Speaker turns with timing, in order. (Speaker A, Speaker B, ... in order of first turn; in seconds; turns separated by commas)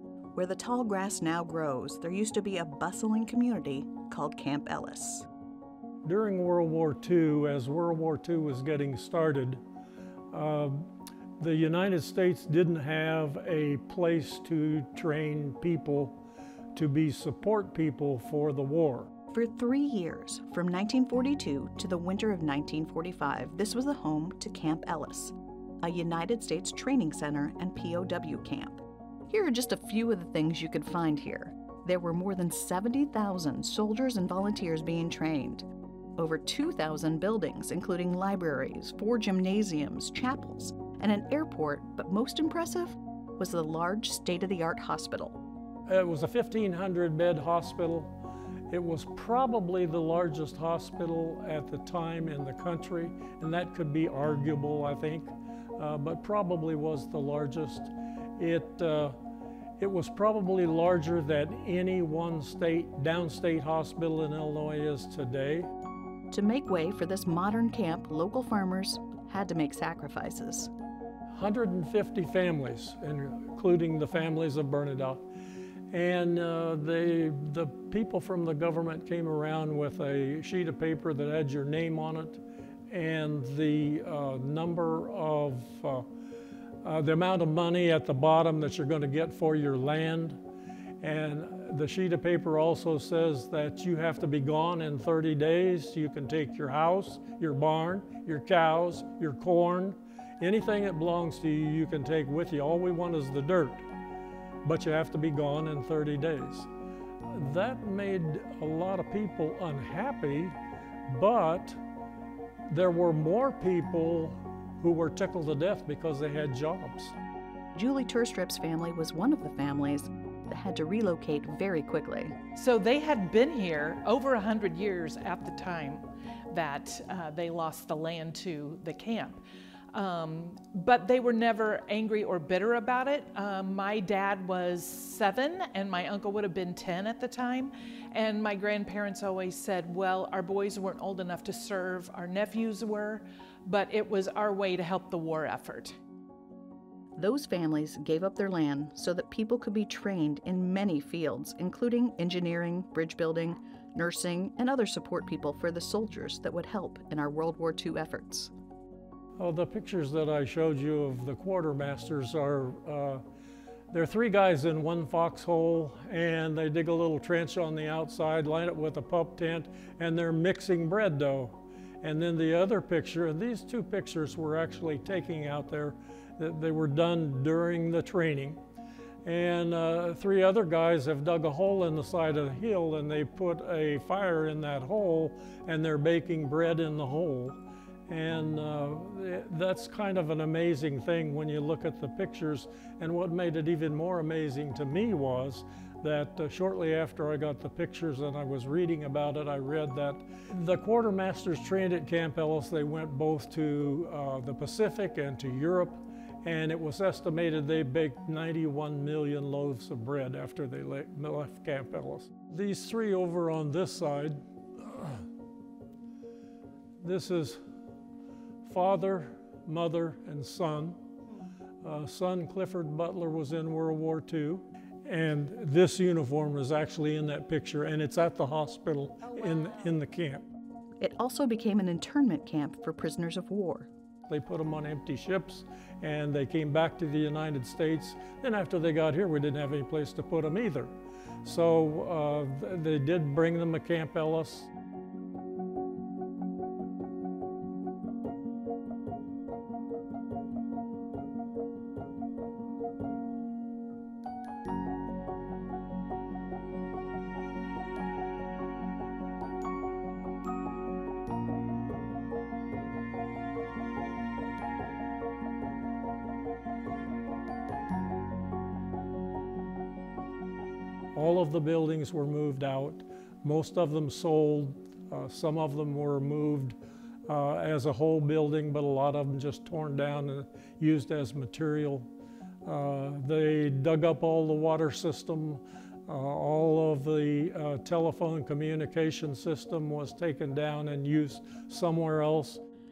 Speaker A: 0.3-5.3, Speaker B: 6.0-9.6, Speaker B: 10.3-10.9, Speaker B: 11.4-16.2, Speaker B: 16.7-19.1, Speaker A: 19.3-35.6, Speaker A: 36.2-45.4, Speaker B: 45.9-48.1, Speaker B: 48.7-59.1, Speaker B: 59.8-65.7, Speaker A: 66.3-70.7, Speaker B: 71.3-75.2, Speaker B: 75.9-86.1, Speaker B: 86.8-90.4, Speaker B: 91.0-103.8, Speaker B: 104.6-106.7, Speaker B: 107.3-110.5, Speaker B: 111.1-111.8, Speaker B: 112.7-117.2, Speaker A: 117.7-122.3, Speaker C: 122.5-129.4, Speaker C: 129.9-146.0, Speaker A: 147.2-158.5, Speaker B: 159.4-163.2, Speaker B: 163.9-178.6, Speaker B: 179.2-215.2, Speaker B: 217.0-217.6, Speaker B: 218.6-221.0, Speaker B: 221.8-230.4, Speaker A: 231.0-233.9, Speaker B: 234.3-240.9, Speaker B: 241.4-244.7, Speaker B: 271.1-282.1, Speaker B: 282.6-292.6